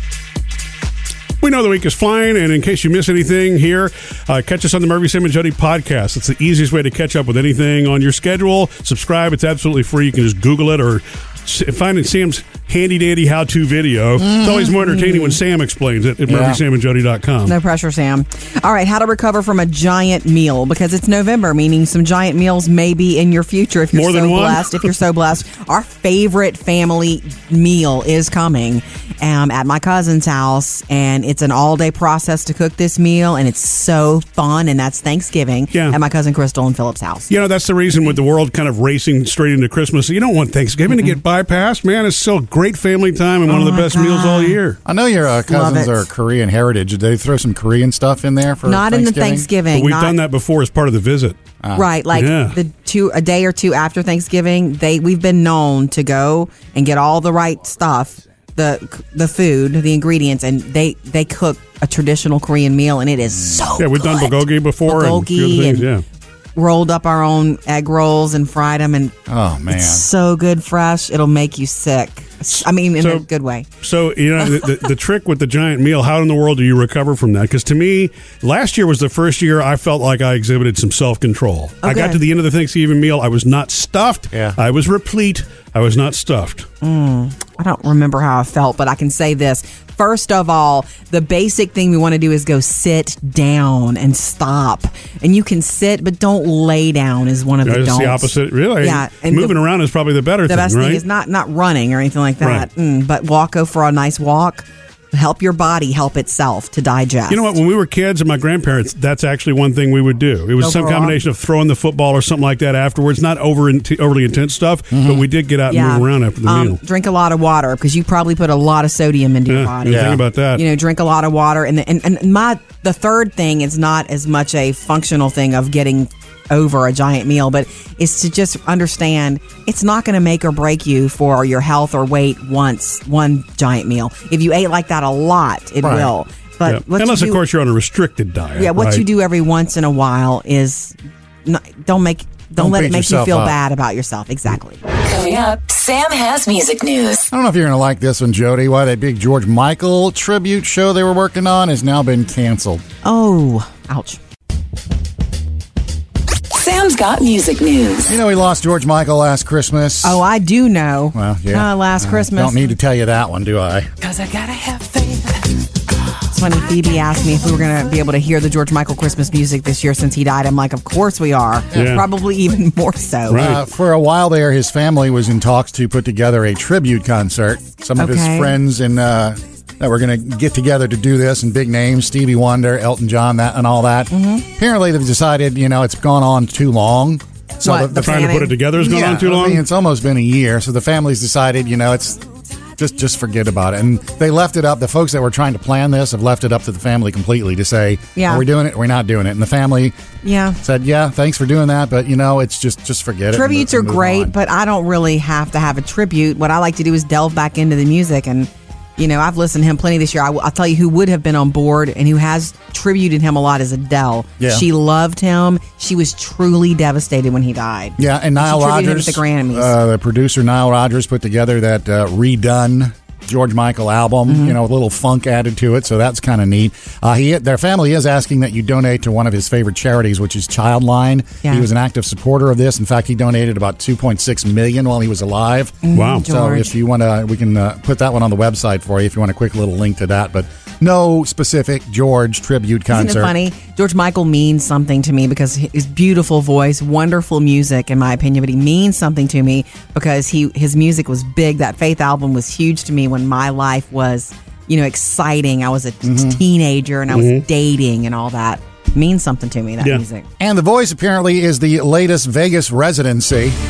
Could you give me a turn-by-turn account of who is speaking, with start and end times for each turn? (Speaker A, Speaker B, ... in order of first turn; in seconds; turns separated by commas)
Speaker A: 1.4-17.5, Speaker B: 14.2-14.7, Speaker C: 14.8-15.4, Speaker B: 16.3-16.6, Speaker C: 17.4-37.3, Speaker A: 23.9-24.8, Speaker A: 37.3-44.8, Speaker C: 40.9-41.2, Speaker C: 43.5-44.6, Speaker B: 44.8-49.5, Speaker C: 45.5-46.0, Speaker C: 48.6-50.2, Speaker A: 49.7-51.4, Speaker B: 51.6-51.9, Speaker C: 51.7-65.8, Speaker A: 52.1-52.6, Speaker B: 63.4-63.7, Speaker A: 63.8-66.0, Speaker C: 66.5-69.1, Speaker B: 69.3-70.0, Speaker C: 69.7-73.7, Speaker A: 73.0-73.2, Speaker A: 73.8-86.7, Speaker C: 81.8-82.2, Speaker B: 84.3-84.6, Speaker C: 86.8-99.6, Speaker A: 97.7-101.0, Speaker C: 100.5-107.5, Speaker A: 102.4-102.7, Speaker A: 107.3-116.8, Speaker C: 110.6-111.2, Speaker B: 114.9-115.2, Speaker C: 115.7-137.4, Speaker A: 119.5-120.6, Speaker B: 119.9-120.2, Speaker B: 135.8-136.1, Speaker A: 136.6-139.0, Speaker C: 138.6-144.8, Speaker B: 142.6-143.6, Speaker D: 144.9-147.3, Speaker B: 147.3-152.8, Speaker C: 153.0-154.2, Speaker D: 156.5-158.1, Speaker B: 158.1-160.2, Speaker C: 160.0-162.6, Speaker B: 161.1-163.9, Speaker D: 164.1-165.1, Speaker C: 166.3-173.5, Speaker A: 171.7-172.0, Speaker A: 173.3-173.6, Speaker B: 173.3-192.2, Speaker C: 178.0-178.6, Speaker C: 184.1-184.4, Speaker C: 187.6-188.6, Speaker A: 188.0-189.6, Speaker B: 192.8-199.9, Speaker C: 198.2-198.4, Speaker C: 200.2-200.6, Speaker B: 200.6-204.3, Speaker C: 203.3-219.7, Speaker B: 214.4-214.6, Speaker B: 218.0-243.3, Speaker C: 224.3-224.6, Speaker C: 235.8-236.7, Speaker A: 235.9-236.2, Speaker C: 242.9-260.3, Speaker B: 256.0-256.4, Speaker A: 257.1-257.4, Speaker B: 260.4-263.6